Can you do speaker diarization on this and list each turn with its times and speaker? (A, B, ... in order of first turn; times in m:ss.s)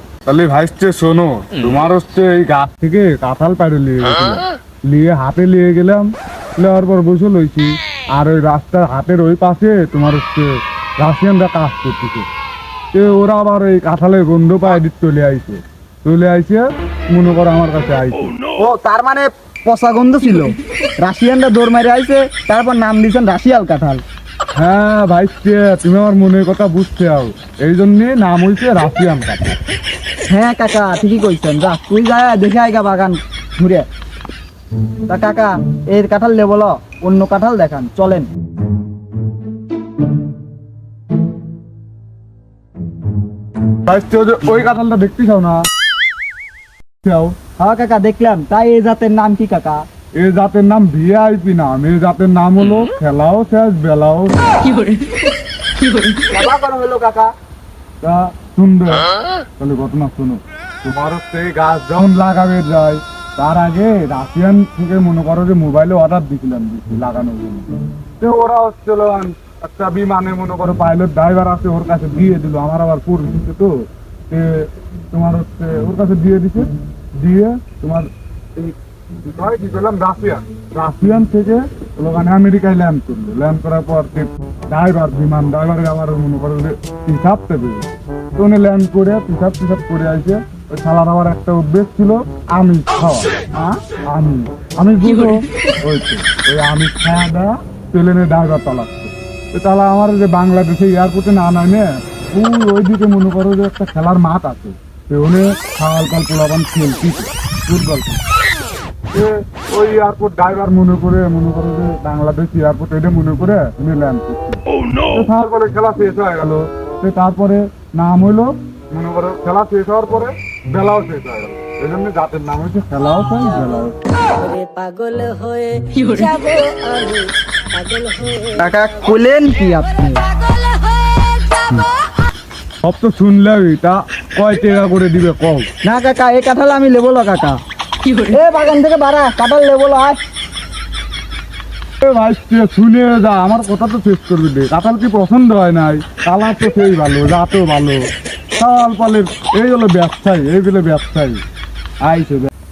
0:00.2-0:12.3 A
0:12.9-0:18.3 A
0:18.6-0:24.0 B
0:24.6-0:29.6 A
0:30.3-0:33.9 B
0:35.1-0:38.3 B
0:43.8-0:45.6 A
0:47.0-0:47.4 A
0:47.6-0:49.8 B
0:50.2-0:54.7 A
0:56.3-0:57.3 B
0:58.0-0:59.1 A
0:59.6-1:27.8 A
1:28.4-1:33.3 A
1:34.1-1:48.2 A
1:49.1-2:03.9 A
2:04.4-2:08.6 C
2:08.6-2:10.2 B
2:12.8-2:15.7 A
2:15.8-2:17.6 B
2:18.2-2:20.2 B
2:22.0-2:28.0 A
2:28.6-2:31.4 A
2:32.0-2:32.5 A